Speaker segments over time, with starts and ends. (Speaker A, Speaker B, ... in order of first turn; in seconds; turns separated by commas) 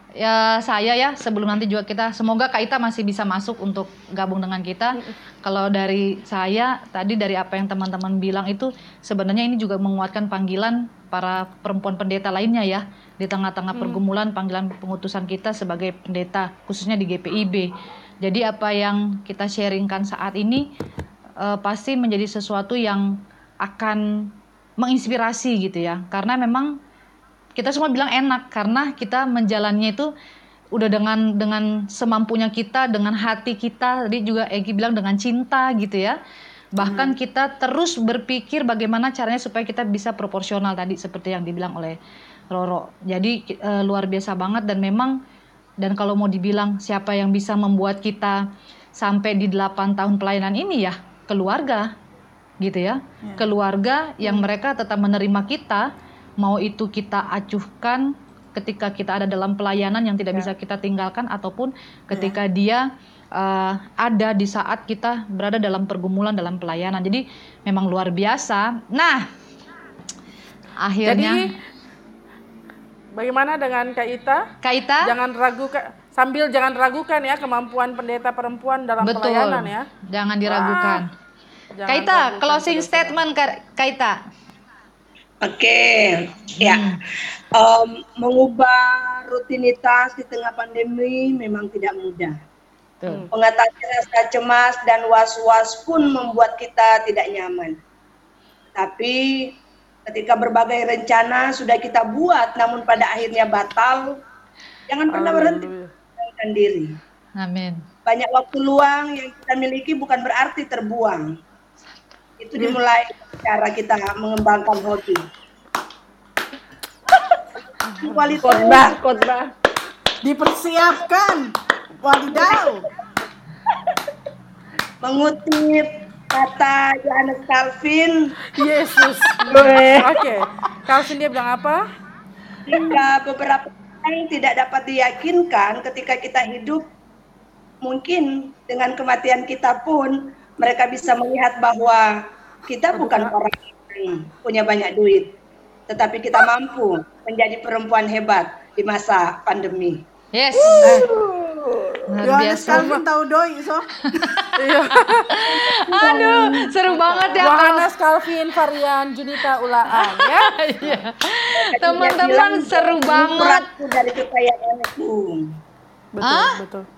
Speaker A: 0.2-17.7, Speaker B: 13.7-14.0, Speaker A: 18.2-20.6, Speaker A: 21.4-23.1, Speaker A: 23.6-24.0, Speaker A: 24.8-26.7, Speaker A: 27.6-30.1, Speaker A: 30.7-36.1, Speaker A: 36.8-42.0, Speaker A: 42.5-45.1, Speaker A: 45.8-48.4, Speaker A: 49.0-51.9, Speaker A: 52.6-55.8, Speaker A: 56.4-62.8, Speaker C: 62.1-62.4, Speaker A: 63.4-69.3, Speaker A: 70.8-71.5, Speaker B: 71.0-71.4, Speaker B: 73.2-74.4, Speaker A: 74.6-75.1, Speaker B: 75.0-79.8, Speaker A: 79.0-81.1, Speaker B: 80.4-81.0, Speaker B: 81.8-83.2, Speaker A: 81.9-84.2, Speaker D: 85.4-86.9, Speaker A: 86.6-87.0, Speaker D: 87.5-92.4, Speaker D: 93.3-97.8, Speaker D: 98.8-99.2, Speaker D: 100.0-104.1, Speaker D: 104.9-105.7, Speaker B: 105.1-105.9, Speaker D: 106.3-107.0, Speaker A: 107.4-107.8, Speaker D: 108.0-111.2, Speaker D: 112.4-115.2, Speaker D: 118.0-119.0, Speaker E: 118.4-119.4, Speaker C: 120.2-121.5, Speaker C: 122.0-122.8, Speaker D: 125.0-128.3, Speaker B: 128.5-131.8, Speaker E: 129.5-129.9, Speaker D: 129.7-130.0, Speaker D: 132.7-136.9, Speaker D: 137.8-142.1, Speaker D: 142.7-145.3, Speaker B: 142.9-143.3, Speaker D: 145.9-150.0, Speaker A: 150.3-151.1, Speaker E: 150.6-152.1, Speaker A: 152.1-153.0, Speaker C: 152.2-154.4, Speaker B: 152.7-153.0, Speaker A: 154.0-154.5, Speaker B: 154.6-155.5, Speaker A: 155.3-157.9, Speaker D: 155.4-157.3, Speaker B: 157.4-160.5, Speaker A: 159.9-163.7, Speaker D: 161.6-165.4, Speaker B: 166.1-166.8, Speaker A: 166.2-166.6